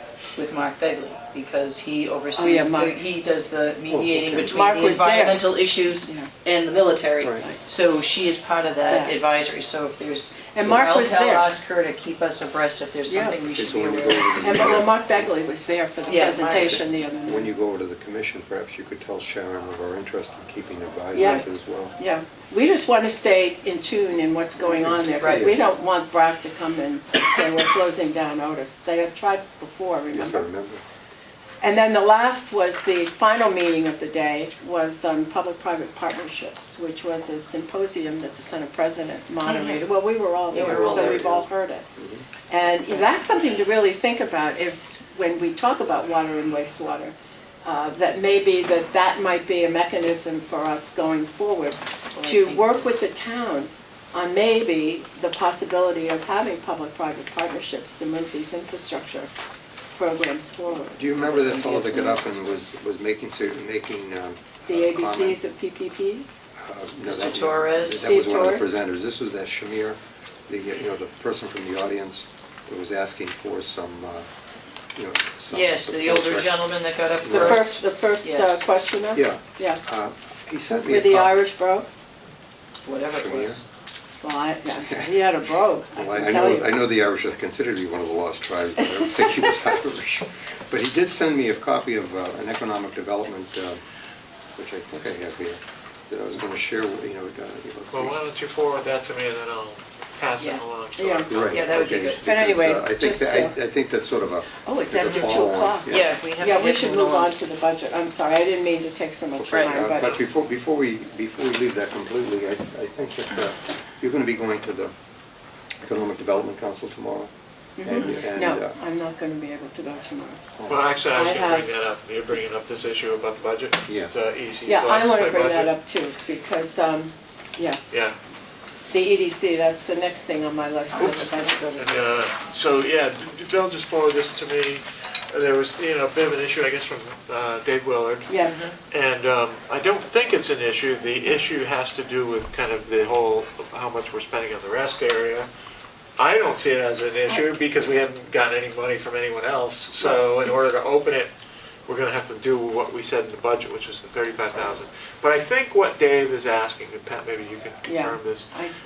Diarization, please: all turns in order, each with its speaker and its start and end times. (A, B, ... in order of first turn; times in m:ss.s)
0:00.4-0:14.8 A
0:02.4-0:03.0 B
0:03.9-0:04.5 C
0:04.4-0:05.5 B
0:06.0-0:06.3 B
0:07.2-0:07.5 C
0:08.9-0:09.2 B
0:10.5-0:11.5 B
0:13.1-0:13.4 B
0:13.6-0:15.3 C
0:14.4-0:17.5 B
0:16.1-0:16.8 A
0:16.6-0:22.0 C
0:21.1-0:21.4 B
0:22.0-0:30.5 B
0:24.8-0:25.7 C
0:25.2-0:25.5 A
0:30.1-0:30.8 C
0:31.6-0:41.9 B
0:39.4-0:39.8 A
0:40.5-0:41.2 A
0:40.5-0:41.5 C
0:42.0-0:42.2 C
0:42.5-0:59.3 B
0:52.1-0:53.0 A
1:00.0-1:02.0 B
1:01.0-1:05.4 C
1:01.6-1:02.2 A
1:04.7-1:06.4 B
1:06.6-1:14.3 C
1:07.0-1:08.2 A
1:08.0-1:08.7 B
1:15.0-1:16.6 C
1:15.5-1:18.6 A
1:17.2-1:17.8 C
1:17.3-1:19.8 B
1:19.1-1:21.4 C
1:20.9-1:21.9 B
1:22.8-1:23.6 A
1:23.1-1:23.6 C
1:24.2-1:26.7 B
1:25.9-1:33.8 C
1:28.8-1:29.5 B
1:34.6-1:38.2 C
1:37.9-1:41.6 D
1:41.0-1:41.3 B
1:41.3-1:46.1 C
1:41.5-1:42.3 A
1:42.2-1:43.6 B
1:44.6-1:50.2 B
1:45.1-1:45.3 A
1:45.9-1:47.3 A
1:49.4-1:54.9 C
1:49.5-1:49.7 A
1:55.8-1:57.3 C
1:57.8-2:00.5 B
1:57.8-1:58.8 C
1:57.9-1:58.2 A
2:00.6-2:00.9 C
2:00.7-2:05.7 D
2:01.1-2:01.7 B
2:04.6-2:07.8 B
2:07.9-2:08.2 D
2:08.9-2:12.1 B
2:11.0-2:18.3 D
2:18.3-2:18.7 B
2:18.4-2:18.8 A
2:18.9-2:25.5 D
2:26.2-2:31.3 D
2:30.0-2:30.6 B
2:31.9-2:38.5 D
2:37.9-2:38.7 B